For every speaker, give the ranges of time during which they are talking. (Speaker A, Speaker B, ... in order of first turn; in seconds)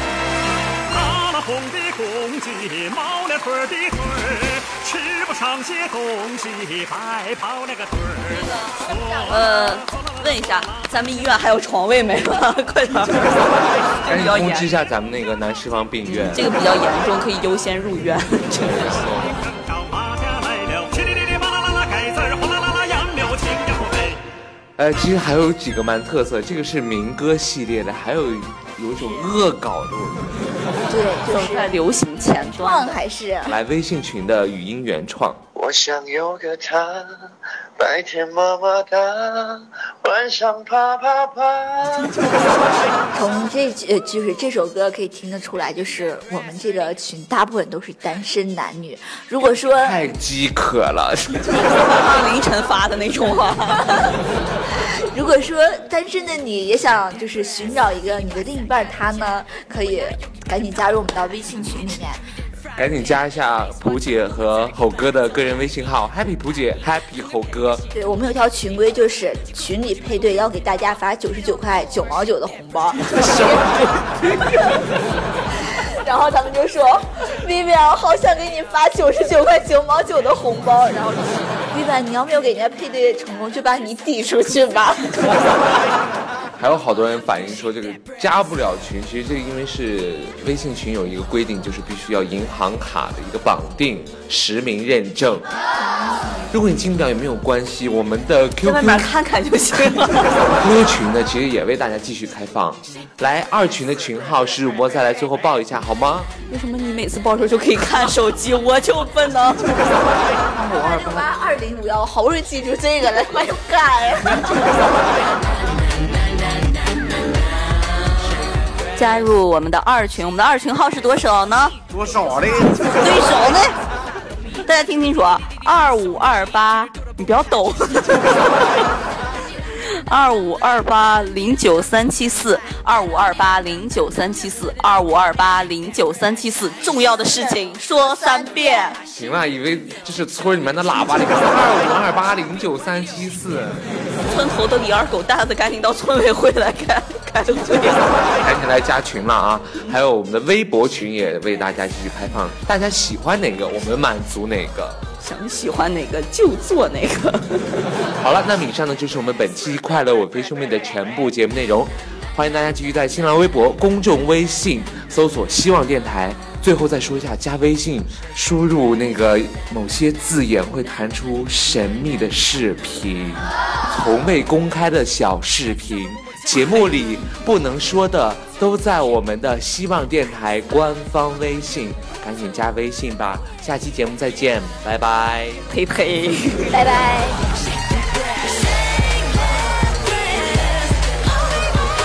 Speaker A: 0.9-9.9, 19.1-24.2
Speaker B: 8.3-9.4, 30.9-33.6, 43.1-50.0, 54.7-62.2, 67.9-73.7, 75.6-85.8, 95.8-96.4, 110.5-115.0, 137.1-139.0, 186.7-187.4
Speaker C: 9.2-14.7, 16.1-19.1, 31.3-33.0, 51.5-54.1, 98.6-100.4, 106.5-109.7, 119.0-121.8, 122.8-123.8, 124.6-128.9, 129.8-139.0, 144.2-148.2, 155.2-157.9, 185.7-186.8
Speaker D: 14.1-16.4, 18.5-19.5, 24.8-30.5, 33.5-35.4, 49.8-51.7, 62.8-67.9, 73.2-74.4, 86.6-95.5, 96.5-99.1, 100.3-106.3, 121.9-122.8, 139.1-143.8, 148.4-155.0, 158.2-185.6
Speaker E: 35.6-42.2